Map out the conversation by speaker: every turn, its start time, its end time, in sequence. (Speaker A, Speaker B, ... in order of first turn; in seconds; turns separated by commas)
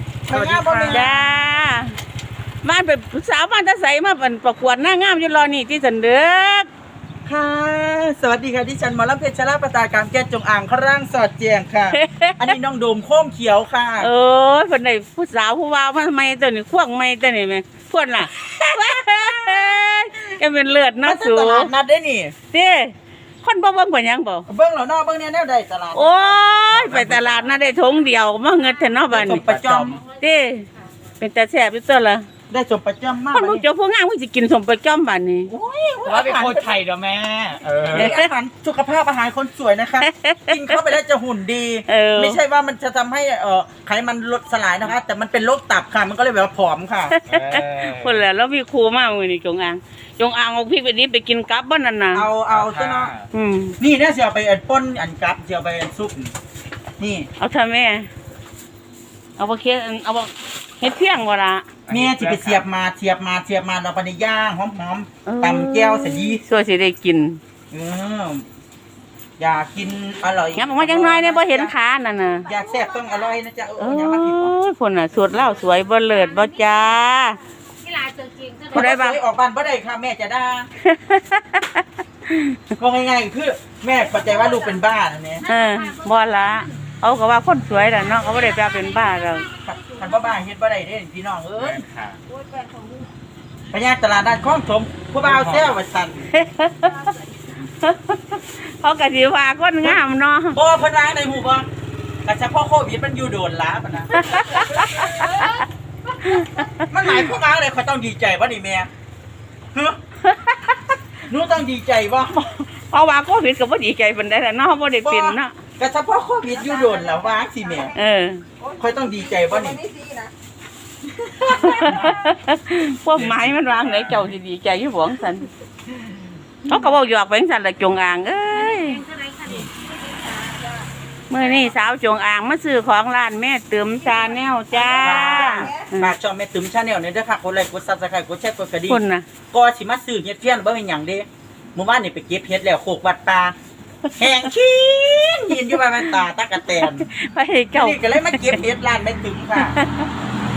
Speaker A: 0.3-1.1, Speaker B: 0.5-0.9, Speaker C: 0.9-2.0, Speaker C: 2.6-6.7, Speaker A: 7.2-14.1, Speaker C: 11.9-12.5, Speaker C: 14.0-21.7, Speaker A: 18.2-19.8, Speaker A: 21.0-22.4, Speaker C: 22.5-24.5, Speaker A: 24.5-27.7, Speaker C: 25.9-29.4, Speaker D: 28.9-29.2, Speaker A: 29.1-30.0, Speaker D: 29.8-30.2, Speaker C: 30.2-30.7, Speaker C: 31.2-32.3, Speaker A: 32.5-33.6, Speaker C: 33.3-35.5, Speaker A: 35.5-36.8, Speaker B: 36.2-37.0, Speaker A: 37.9-47.2, Speaker C: 37.9-38.3, Speaker C: 40.0-40.9, Speaker C: 41.9-42.4, Speaker C: 47.1-52.3, Speaker A: 52.1-53.1, Speaker C: 53.3-53.8, Speaker A: 53.8-56.3, Speaker A: 57.0-57.3, Speaker C: 57.4-58.1, Speaker C: 59.4-61.7, Speaker B: 61.9-62.5, Speaker A: 61.9-66.4, Speaker C: 65.3-67.4, Speaker A: 67.7-68.5, Speaker A: 69.4-71.7, Speaker C: 70.5-72.5, Speaker A: 72.5-74.5, Speaker C: 73.8-77.4, Speaker D: 76.1-76.9, Speaker D: 77.8-78.8, Speaker A: 78.7-80.7, Speaker C: 78.7-79.2, Speaker C: 80.8-82.6, Speaker A: 82.8-85.5, Speaker D: 84.1-84.9, Speaker D: 85.4-86.8, Speaker C: 85.5-89.5, Speaker D: 87.8-90.4, Speaker A: 89.6-91.8, Speaker D: 92.5-93.1, Speaker A: 93.7-96.3, Speaker C: 96.3-97.1, Speaker C: 97.7-100.6, Speaker A: 100.5-101.7, Speaker A: 102.2-105.5, Speaker C: 104.1-105.7, Speaker C: 106.2-107.2, Speaker A: 106.9-108.9, Speaker A: 109.7-110.0, Speaker C: 110.3-110.7, Speaker A: 111.3-112.7, Speaker C: 112.7-115.6, Speaker A: 115.0-117.9, Speaker B: 116.9-117.3, Speaker C: 117.9-118.4, Speaker B: 118.6-120.3, Speaker A: 118.8-119.9, Speaker A: 121.2-122.2, Speaker C: 121.5-125.5, Speaker C: 126.7-129.0, Speaker D: 128.5-130.9, Speaker A: 129.4-129.7, Speaker C: 131.3-136.2, Speaker A: 134.9-139.0, Speaker B: 135.3-135.8, Speaker C: 138.9-139.3, Speaker A: 139.5-143.6, Speaker A: 144.2-147.1, Speaker C: 146.1-148.6, Speaker A: 147.7-149.8, Speaker C: 149.6-150.1